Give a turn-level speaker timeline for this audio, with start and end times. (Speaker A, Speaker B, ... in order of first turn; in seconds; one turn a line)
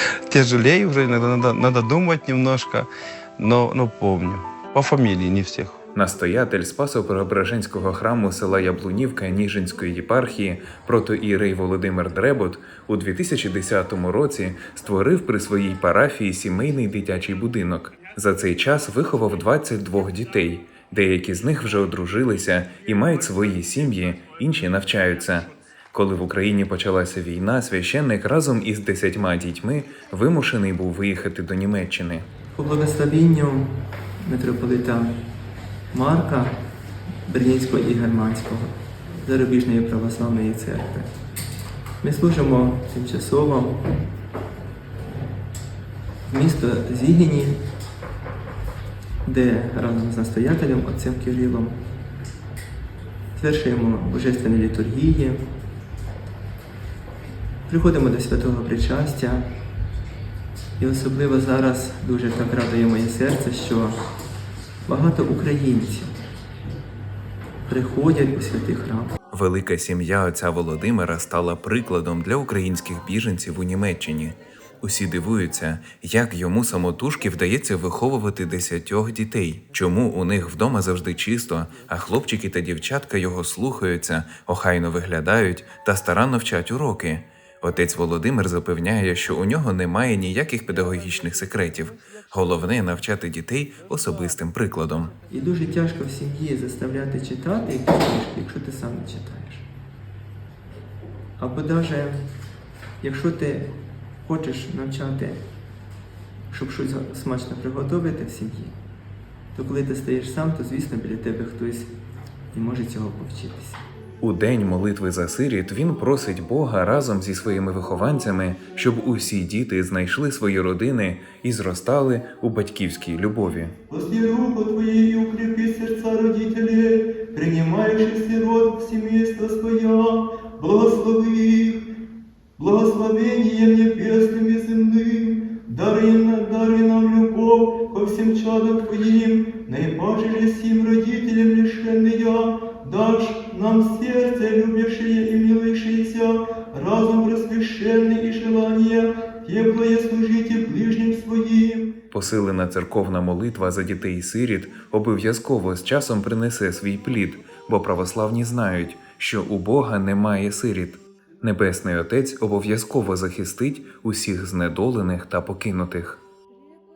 Speaker A: 0.3-5.8
Speaker B: 5.9-32.2
Speaker C: 32.5-35.1
Speaker C: 35.9-36.5
Speaker C: 37.3-41.1
Speaker C: 42.0-43.8
Speaker C: 46.3-47.6
Speaker C: 49.2-51.8
Speaker C: 53.3-55.4
Speaker C: 57.7-59.5
Speaker C: 60.8-64.0
Speaker C: 64.8-66.1
Speaker C: 67.7-69.1
Speaker B: 69.3-95.1
Speaker C: 95.3-99.7
Speaker C: 101.4-102.2
Speaker C: 103.0-103.7
Speaker C: 104.2-105.4
Speaker C: 106.5-108.7
Speaker C: 109.5-111.9
Speaker C: 112.5-113.8
Speaker B: 114.2-123.7
Speaker C: 123.9-131.8
Speaker C: 132.6-151.9
Speaker B: 152.1-166.2